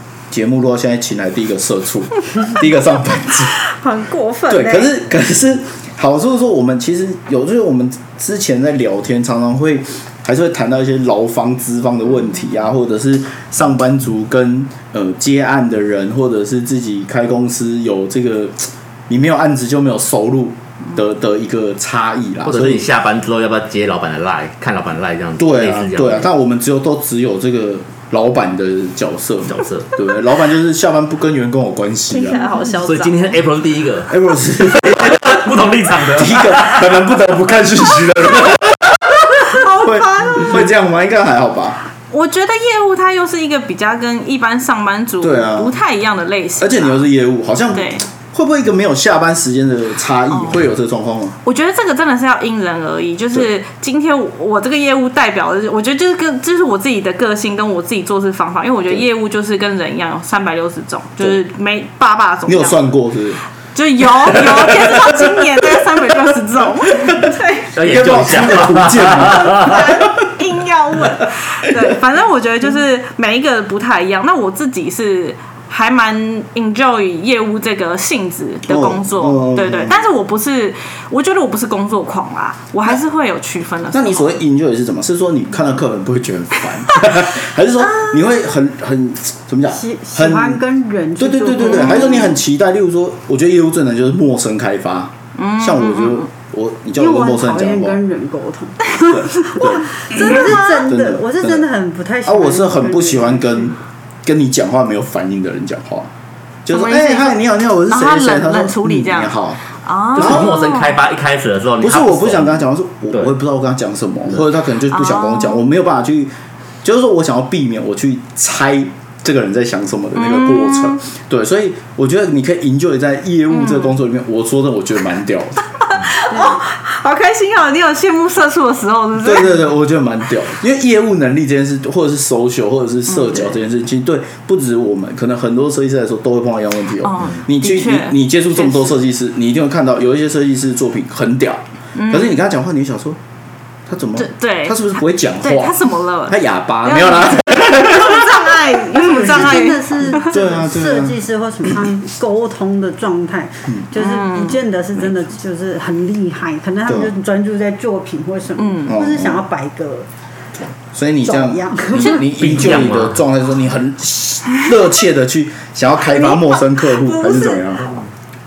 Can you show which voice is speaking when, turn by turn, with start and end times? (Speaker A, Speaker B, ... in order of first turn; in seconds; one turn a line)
Speaker A: 0.3-3.6
Speaker B: 3.7-4.8
Speaker A: 4.5-22.9
Speaker C: 22.4-26.3
Speaker A: 25.4-32.4
Speaker C: 29.5-29.9
Speaker B: 32.1-33.3
Speaker C: 32.6-36.9
Speaker A: 34.1-35.5
Speaker A: 36.0-41.8
Speaker B: 39.3-40.6
Speaker B: 42.1-47.0
Speaker A: 45.2-45.8
Speaker A: 46.6-51.4
Speaker B: 47.7-48.0
Speaker B: 51.4-62.8
Speaker A: 62.5-63.4
Speaker B: 63.8-67.7
Speaker A: 64.2-65.5
Speaker A: 66.9-70.3
Speaker C: 67.8-69.8
Speaker B: 69.5-84.3
Speaker A: 78.7-80.0
Speaker A: 83.9-90.6
Speaker D: 89.7-92.3
Speaker A: 91.2-98.0
Speaker B: 91.6-92.3
Speaker B: 95.4-96.3
Speaker D: 97.0-103.7
Speaker A: 99.0-101.7
Speaker B: 99.5-100.9
Speaker A: 102.2-106.1
Speaker A: 106.7-109.6
Speaker B: 106.7-111.0
Speaker A: 110.2-110.6
Speaker C: 110.2-112.6
Speaker A: 111.8-116.3
Speaker B: 114.9-115.6
Speaker A: 116.8-125.7
Speaker B: 120.2-121.0
Speaker B: 123.5-123.9
Speaker B: 125.9-129.6
Speaker A: 129.2-143.2
Speaker B: 137.0-138.9
Speaker B: 141.9-142.3
Speaker A: 143.9-148.5
Speaker B: 144.2-150.3
Speaker D: 148.9-160.1
Speaker A: 150.2-151.2
Speaker B: 154.0-154.6
Speaker A: 156.9-157.1
Speaker B: 158.6-158.9
Speaker A: 158.9-159.4
Speaker A: 160.9-168.0
Speaker D: 161.2-162.2
Speaker C: 162.2-163.2
Speaker B: 166.1-167.6